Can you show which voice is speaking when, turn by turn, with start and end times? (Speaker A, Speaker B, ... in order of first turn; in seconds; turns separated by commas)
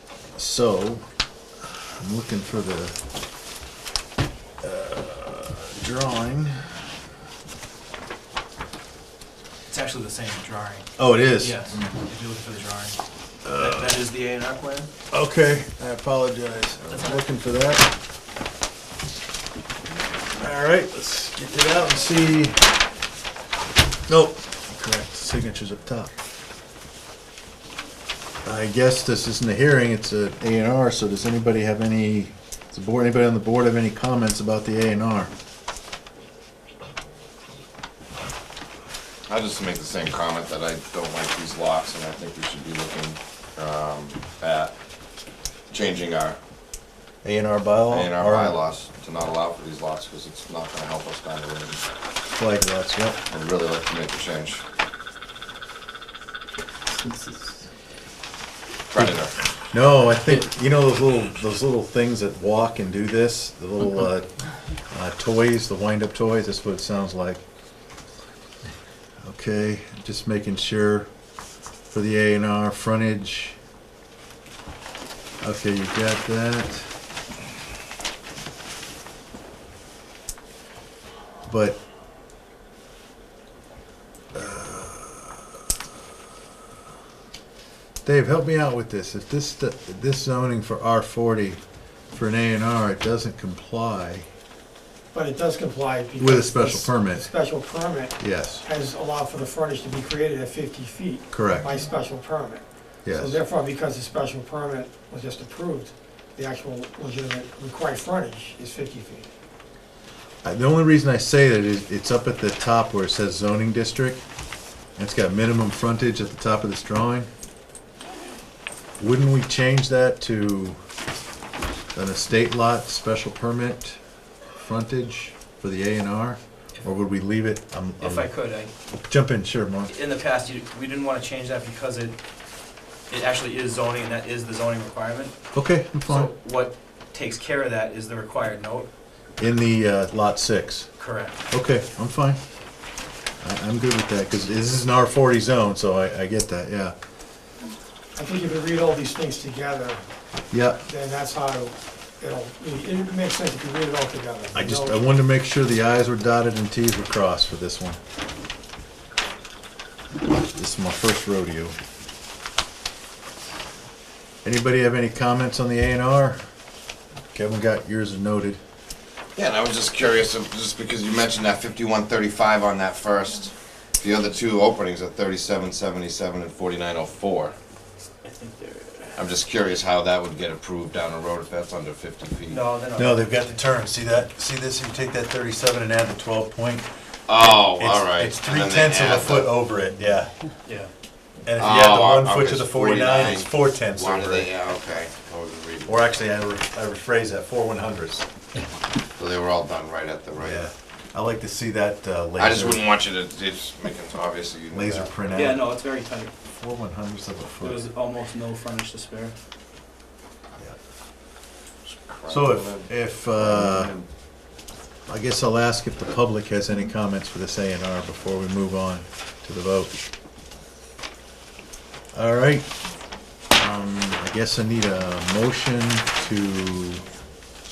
Speaker A: 0.4-1.0, Speaker A: 1.9-3.0, Speaker A: 4.6-6.8, Speaker B: 9.7-14.9, Speaker A: 11.0-11.8, Speaker A: 13.4-14.0, Speaker A: 15.1-17.9, Speaker B: 16.9-17.3, Speaker A: 20.3-22.6, Speaker A: 24.1-26.1, Speaker A: 28.4-35.3, Speaker C: 39.3-44.7, Speaker C: 45.7-46.4, Speaker A: 47.2-48.6, Speaker C: 47.9-51.9, Speaker A: 52.3-53.2, Speaker C: 53.3-54.6, Speaker C: 58.9-59.3, Speaker A: 59.7-64.3, Speaker A: 64.9-67.4, Speaker A: 69.2-71.1, Speaker A: 71.9-73.6, Speaker A: 75.4-76.9, Speaker A: 81.5-81.8, Speaker A: 84.3-85.4, Speaker A: 88.0-91.6, Speaker A: 92.1-94.2, Speaker D: 95.1-109.3, Speaker A: 96.2-97.3, Speaker A: 98.2-98.7, Speaker A: 101.3-101.7, Speaker A: 103.0-103.4, Speaker A: 110.4-114.2, Speaker A: 115.0-117.3, Speaker A: 119.0-120.8, Speaker A: 122.0-124.0, Speaker A: 124.6-128.3, Speaker B: 128.0-128.7, Speaker A: 128.9-129.9, Speaker B: 129.9-132.2, Speaker B: 133.1-135.4, Speaker A: 135.5-136.3, Speaker B: 136.1-138.9, Speaker A: 139.4-140.9, Speaker B: 141.0-141.4, Speaker A: 141.5-142.4, Speaker A: 143.4-146.9, Speaker D: 148.2-150.0, Speaker A: 150.5-150.8, Speaker D: 150.8-155.1, Speaker A: 154.5-158.0, Speaker A: 160.4-161.8, Speaker A: 164.4-166.4, Speaker A: 167.3-168.6, Speaker C: 169.4-177.5, Speaker B: 178.2-179.2, Speaker C: 179.2-182.6, Speaker B: 182.5-183.6, Speaker A: 183.0-190.3, Speaker C: 187.3-189.5, Speaker B: 190.7-190.9, Speaker A: 191.5-194.5, Speaker C: 191.6-196.0, Speaker A: 195.9-198.3, Speaker C: 199.2-200.7, Speaker A: 200.4-202.8, Speaker C: 202.4-205.4, Speaker A: 204.7-205.7, Speaker B: 205.3-206.3, Speaker A: 206.6-207.9, Speaker B: 207.6-209.3, Speaker C: 211.9-214.1, Speaker A: 212.3-213.9, Speaker A: 215.1-219.9, Speaker A: 222.1-222.7, Speaker A: 223.5-227.0